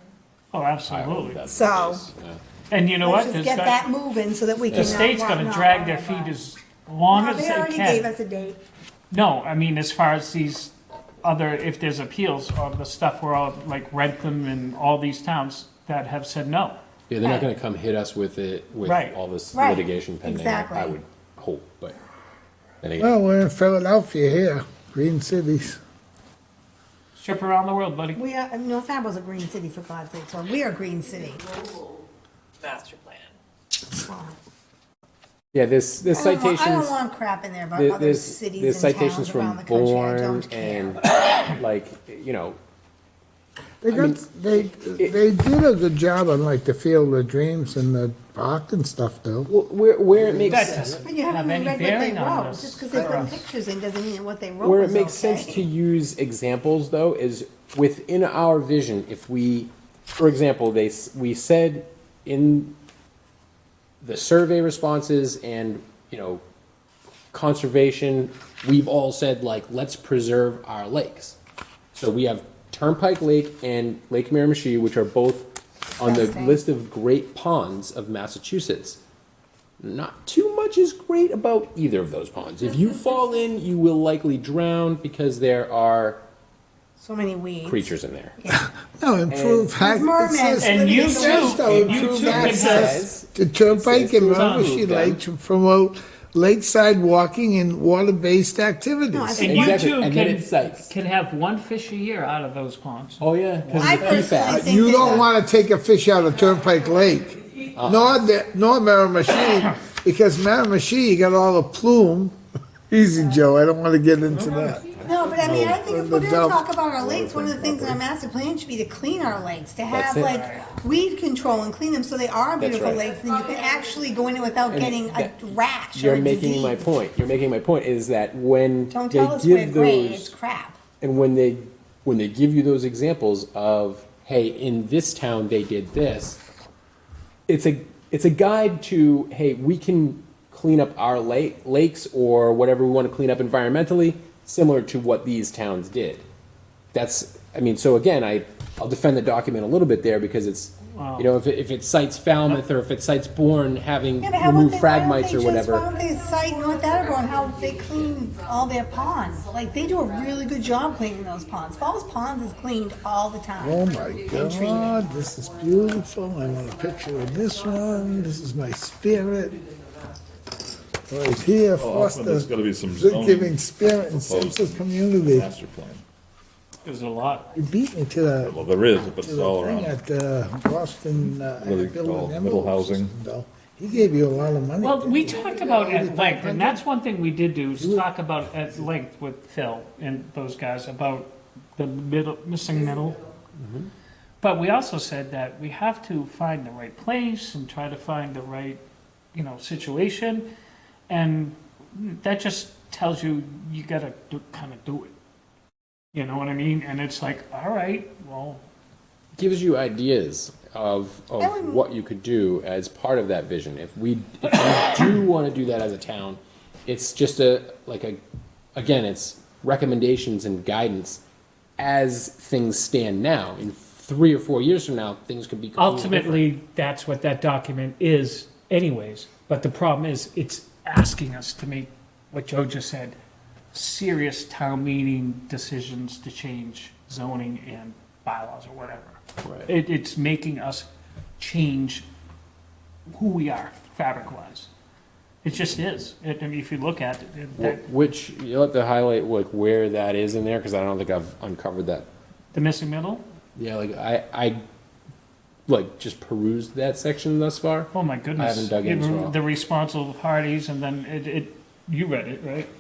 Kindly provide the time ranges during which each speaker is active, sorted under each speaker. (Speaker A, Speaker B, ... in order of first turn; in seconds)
Speaker A: 0.5-1.4, 2.7-3.9, 4.8-8.1, 9.1-16.8, 18.8-19.2, 27.2-28.2, 32.6-33.2, 50.5-53.0, 90.6-93.0, 94.3-94.8, 99.4-104.5, 120.3-120.7, 150.9-151.3, 176.8-177.5, 184.8-193.2, 194.4-198.8, 199.3-200.5, 201.1-205.1, 206.1-208.6, 225.8-233.2, 233.7-242.1, 243.1-244.7, 245.4-247.8, 252.5-253.2, 257.9-262.7
Speaker B: 0.9-2.4, 4.7-5.1, 17.1-22.0, 22.8-23.1, 35.5-37.0, 37.8-42.6, 43.9-44.2, 49.5-51.1, 54.6-62.7, 64.0-66.4, 67.3-71.4, 71.9-79.0, 79.8-86.2, 87.7-88.4, 89.3-89.8, 91.6-95.2, 99.4-100.9, 103.2-105.3, 107.8-108.2, 115.4-115.8, 119.9-120.4, 122.6-123.0, 124.7-130.3, 131.0-136.4, 137.5-146.2, 146.9-155.9, 193.6-193.9, 209.4-218.2, 218.8-221.2, 221.8-226.5, 239.4-239.7, 247.6-252.1, 253.6-254.6, 255.7-259.4
Speaker C: 1.5-2.0, 3.0-6.4, 7.1-8.6, 17.2-17.5, 19.5-21.0, 28.1-31.4, 34.0-34.4, 36.1-41.0, 51.0-55.7, 76.0-76.6, 87.0-88.7, 89.8-91.7, 99.1-99.8, 103.8-105.3, 115.0-126.9, 128.9-130.8, 154.2-165.0, 211.4-211.9
Speaker D: 23.0-25.8, 43.8-49.5, 50.1-51.1, 52.9-53.4, 88.5-99.5, 104.4-112.3, 112.9-114.9, 115.6-118.0, 163.6-169.6, 171.1-175.5, 177.5-186.8, 187.8-188.1
Speaker E: 171.8-176.0, 178.4-179.9, 181.6-183.1